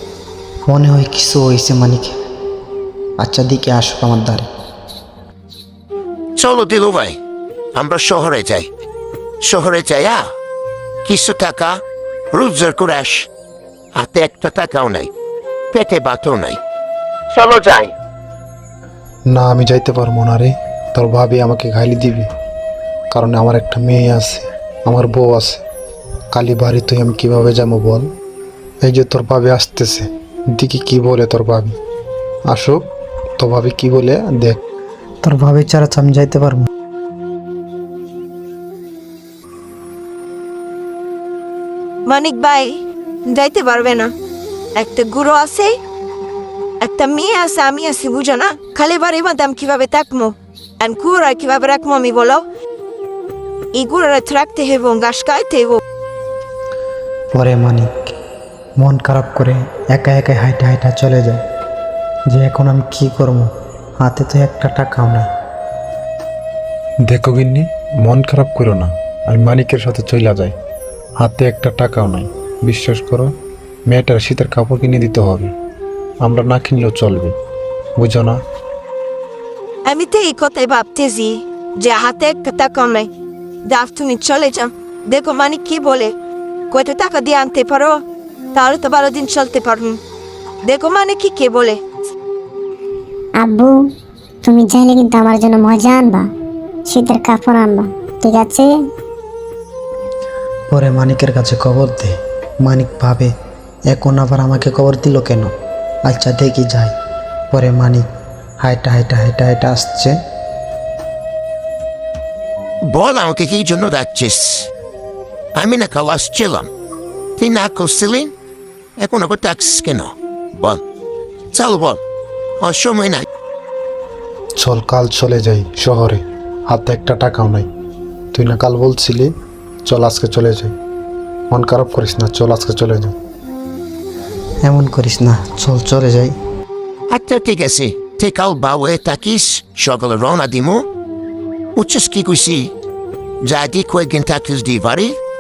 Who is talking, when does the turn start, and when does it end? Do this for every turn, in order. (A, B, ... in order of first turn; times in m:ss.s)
0:00.7-0:02.2 A
0:03.2-0:04.5 A
0:06.4-0:07.2 B
0:07.8-0:08.7 B
0:09.4-0:10.2 B
0:11.0-0:11.8 B
0:12.3-0:13.3 B
0:14.0-0:15.1 B
0:15.7-0:16.6 B
0:17.3-0:17.9 B
0:19.3-0:22.3 C
0:23.1-0:25.6 C
0:26.3-0:28.1 C
0:28.8-0:31.8 C
0:32.5-0:32.9 C
0:33.4-0:34.6 C
0:35.2-0:36.7 A
0:42.1-0:44.1 D
0:44.8-0:45.7 D
0:46.8-0:52.4 D
0:53.7-0:55.8 D
0:57.3-0:57.9 A
0:58.8-1:01.4 A
1:02.3-1:05.3 A
1:07.0-1:10.6 C
1:11.2-1:13.3 C
1:13.9-1:15.5 C
1:16.2-1:17.4 C
1:18.0-1:18.4 C
1:19.9-1:23.1 D
1:23.7-1:26.1 D
1:26.7-1:28.0 D
1:28.5-1:30.0 D
1:30.7-1:31.8 D
1:33.4-1:33.8 E
1:34.4-1:36.3 E
1:36.9-1:38.7 E
1:40.7-1:43.3 A
1:43.9-1:45.5 A
1:46.1-1:46.9 A
1:47.5-1:48.1 A
1:48.6-1:50.2 A
1:52.9-1:54.7 B
1:55.6-1:56.7 B
1:57.4-1:58.3 B
1:59.0-2:00.8 B
2:01.5-2:02.0 B
2:02.6-2:03.2 B
2:04.6-2:07.7 C
2:08.3-2:09.3 C
2:09.8-2:10.7 C
2:11.5-2:13.2 C
2:14.6-2:16.3 A
2:17.1-2:20.8 B
2:21.8-2:22.7 B
2:23.4-2:25.2 B